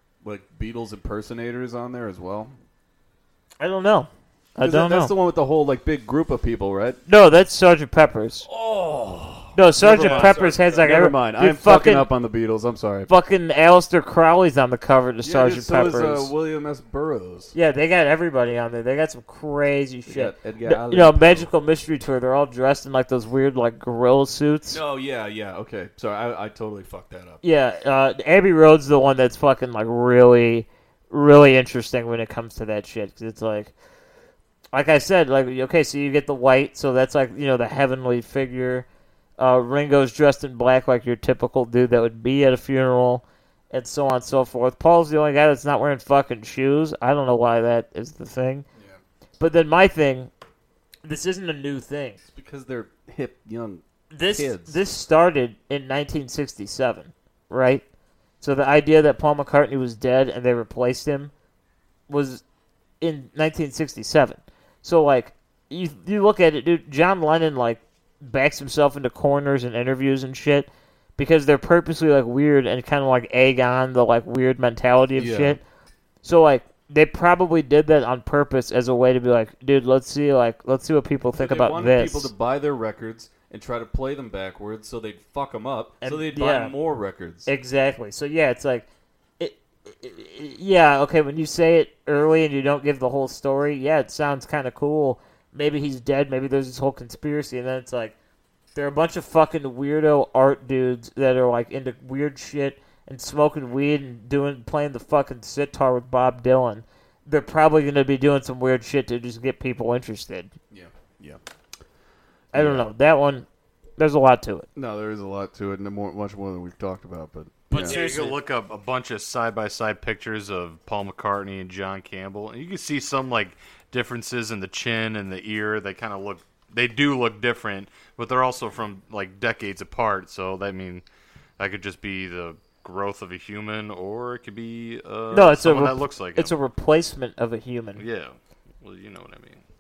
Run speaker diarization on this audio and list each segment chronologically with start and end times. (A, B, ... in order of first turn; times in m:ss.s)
0:00.2-0:02.6 A
0:03.6-0:05.1 B
0:04.6-0:07.0 A
0:07.1-0:08.5 B
0:08.5-0:13.1 A
0:09.6-0:12.1 B
0:09.9-0:10.5 C
0:13.1-0:16.3 B
0:15.2-0:17.5 A
0:17.5-0:24.8 B
0:20.1-0:21.5 A
0:24.7-0:27.4 A
0:27.4-0:33.7 B
0:34.7-0:38.9 B
0:39.4-0:48.6 B
0:49.4-0:50.3 B
0:51.0-0:52.2 B
0:52.3-0:54.8 A
0:54.1-0:57.8 B
0:58.4-1:01.3 B
1:02.1-1:02.4 B
1:03.0-1:15.6 B
1:15.2-1:15.6 A
1:16.2-1:22.3 B
1:21.4-1:27.5 A
1:26.0-1:26.8 B
1:27.5-1:28.9 B
1:29.4-1:38.1 B
1:38.8-1:50.5 B
1:50.7-1:51.4 A
1:52.5-1:52.9 A
1:52.5-1:53.5 B
1:54.0-1:54.7 B
1:54.8-1:58.3 A
1:57.7-1:58.4 B
1:57.8-2:11.0 C
2:11.6-2:16.5 C
2:15.3-2:18.0 B
2:18.0-2:19.6 C